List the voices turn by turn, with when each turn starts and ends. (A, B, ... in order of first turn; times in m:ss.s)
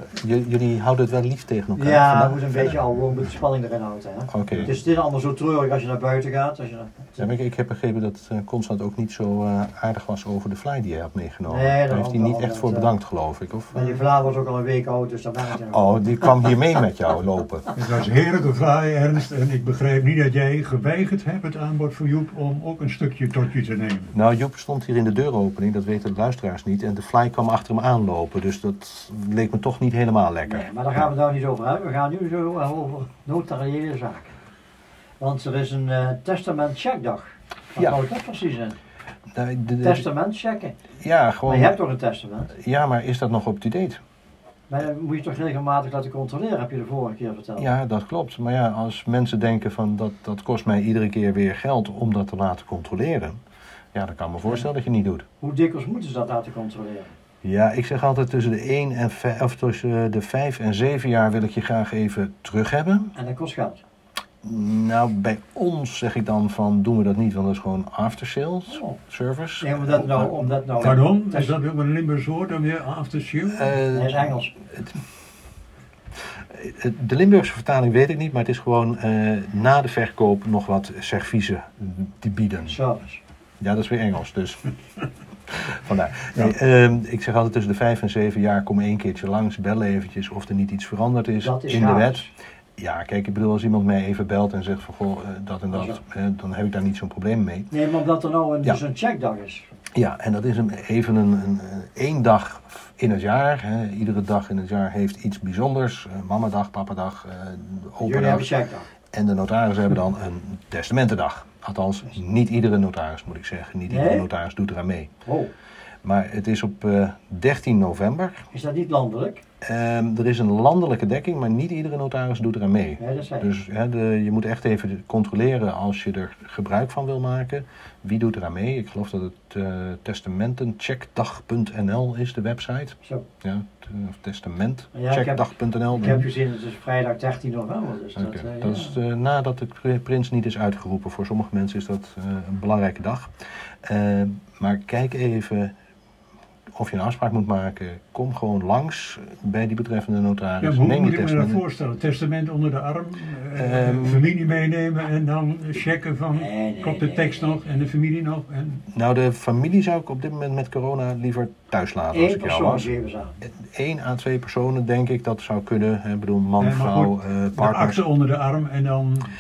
0:00.1-0:02.8 A
0:01.8-0:07.3 B
0:04.3-0:04.7 A
0:07.2-0:14.0 A
0:11.5-0:12.9 B
0:13.7-0:16.6 B
0:15.6-0:17.7 A
0:17.8-0:24.1 C
0:24.1-0:30.7 A
0:30.5-0:34.4 B
0:35.2-0:38.8 B
0:39.3-0:40.1 A
0:39.8-0:40.8 B
0:41.0-0:41.8 A
0:41.5-0:42.5 B
0:42.5-0:44.0 A
0:44.7-0:47.7 B
0:47.6-0:53.4 A
0:53.9-0:55.3 A
0:55.4-0:57.1 B
0:57.4-1:03.1 A
1:03.2-1:03.8 B
1:04.4-1:10.5 A
1:08.7-1:09.0 B
1:09.6-1:11.5 B
1:10.8-1:13.8 C
1:13.5-1:15.0 A
1:13.9-1:14.5 B
1:16.3-1:22.8 A
1:22.7-1:23.2 B
1:23.6-1:24.6 A
1:25.5-1:37.7 A
1:31.4-1:32.3 B
1:35.7-1:36.0 B
1:37.7-1:39.7 B
1:40.0-1:48.5 A
1:48.0-1:48.9 B
1:49.1-1:55.1 A
1:53.9-1:54.3 B
1:55.2-1:55.5 B
1:56.0-1:58.5 A
1:58.5-1:59.4 B
1:59.6-2:16.2 A
2:03.0-2:03.5 B
2:14.9-2:19.0 B
2:18.2-2:23.3 A
2:23.8-2:25.7 A
2:26.7-2:31.6 A
2:30.6-2:38.8 C
2:33.6-2:34.3 A
2:36.3-2:37.9 B
2:38.9-2:42.9 A
2:42.1-2:43.4 B
2:43.4-2:48.0 A
2:46.6-2:49.3 C